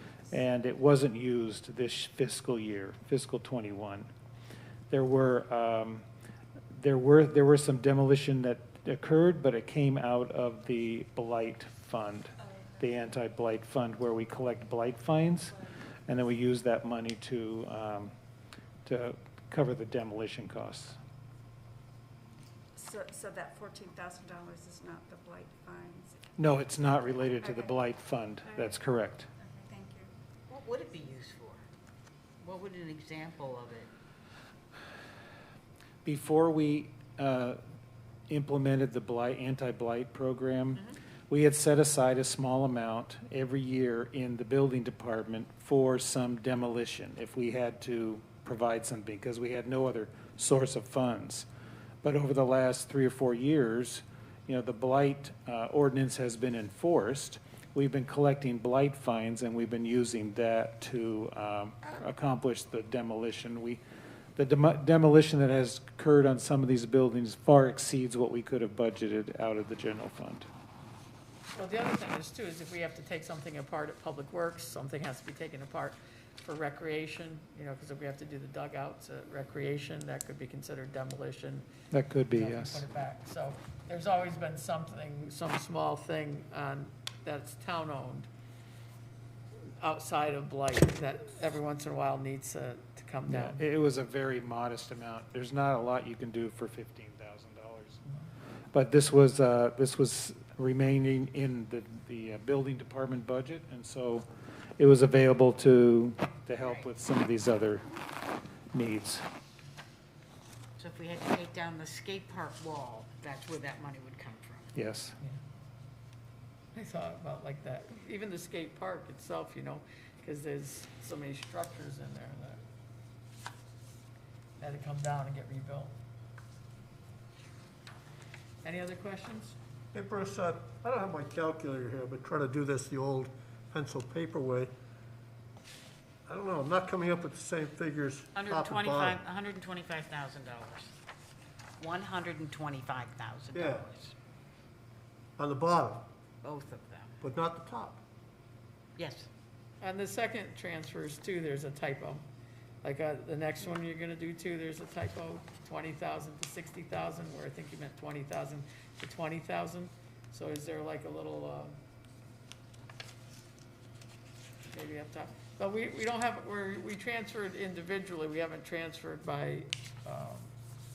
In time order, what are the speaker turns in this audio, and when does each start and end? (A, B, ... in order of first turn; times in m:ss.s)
0:00.3-0:04.1 A
0:04.9-0:06.0 A
0:06.7-0:18.1 A
0:18.8-0:21.0 A
0:22.7-0:26.2 B
0:26.4-0:29.3 A
0:27.4-0:27.7 B
0:29.4-0:30.1 B
0:30.5-0:31.6 C
0:32.4-0:33.9 C
0:36.0-0:37.6 A
0:38.3-0:51.5 A
0:52.0-1:03.8 A
1:04.4-1:10.5 A
1:11.5-1:21.7 D
1:21.9-1:22.9 A
1:22.3-1:28.3 D
1:29.8-1:33.6 D
1:33.3-1:38.0 A
1:38.7-1:44.2 A
1:44.8-1:47.9 A
1:46.6-1:46.9 C
1:48.7-1:49.2 A
1:50.8-1:54.7 C
1:54.7-1:55.2 A
1:56.7-2:02.6 D
2:04.6-2:05.9 D
2:08.6-2:09.6 D
2:09.9-2:14.7 E
2:16.2-2:19.2 E
2:18.3-2:20.9 C
2:21.8-2:24.1 C
2:23.5-2:23.9 E
2:25.4-2:26.1 E
2:26.4-2:27.2 C
2:27.2-2:28.0 E
2:29.0-2:29.3 C
2:29.8-2:32.2 D
2:32.8-2:41.8 D
2:44.7-2:50.5 D